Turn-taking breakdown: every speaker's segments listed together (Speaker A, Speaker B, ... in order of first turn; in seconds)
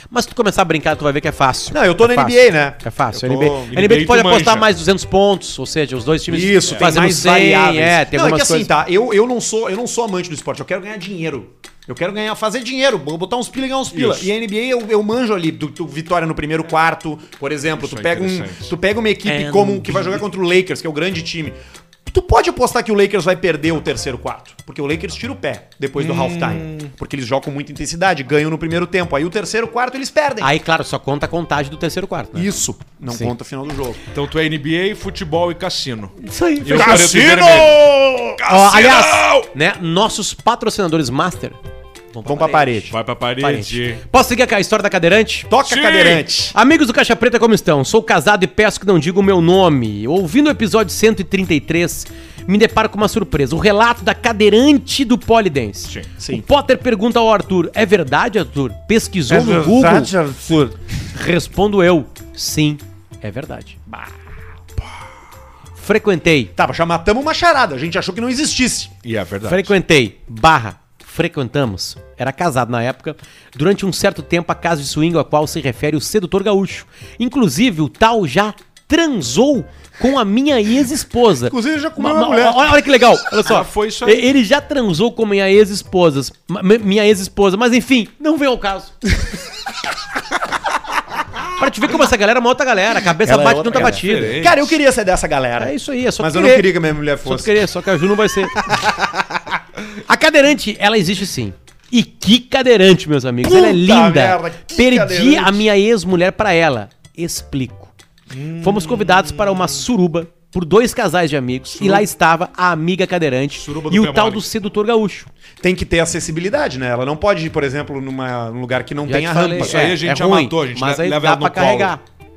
Speaker A: 0.1-8.7, 19.2-20.2, 30.4-32.5, 36.2-37.2, 38.5-41.6, 42.1-45.5, 46.5-60.1, 61.1-63.8, 65.8-66.5, 69.5-88.9, 91.6-94.4, 95.6-96.7, 97.2-98.6, 100.0-107.9, 108.6-115.3, 119.0-122.0
Speaker B: 1.7-3.7, 6.3-30.5, 32.3-34.0, 36.6-38.4, 42.2-42.9, 45.5-46.5, 56.2-56.4, 59.3-60.8, 63.9-64.1, 66.5-68.9, 81.5-82.8, 93.2-97.6, 103.4-105.6, 115.6-120.0
Speaker C: 3.7-4.7, 6.7-6.9, 13.9-14.3, 17.8-18.7, 26.0-26.9, 34.1-39.5, 42.9-44.0, 45.6-46.3, 69.0-69.7, 83.4-84.3, 93.7-94.7, 108.3-109.8, 111.7-112.1, 113.5-114.5, 119.5-121.9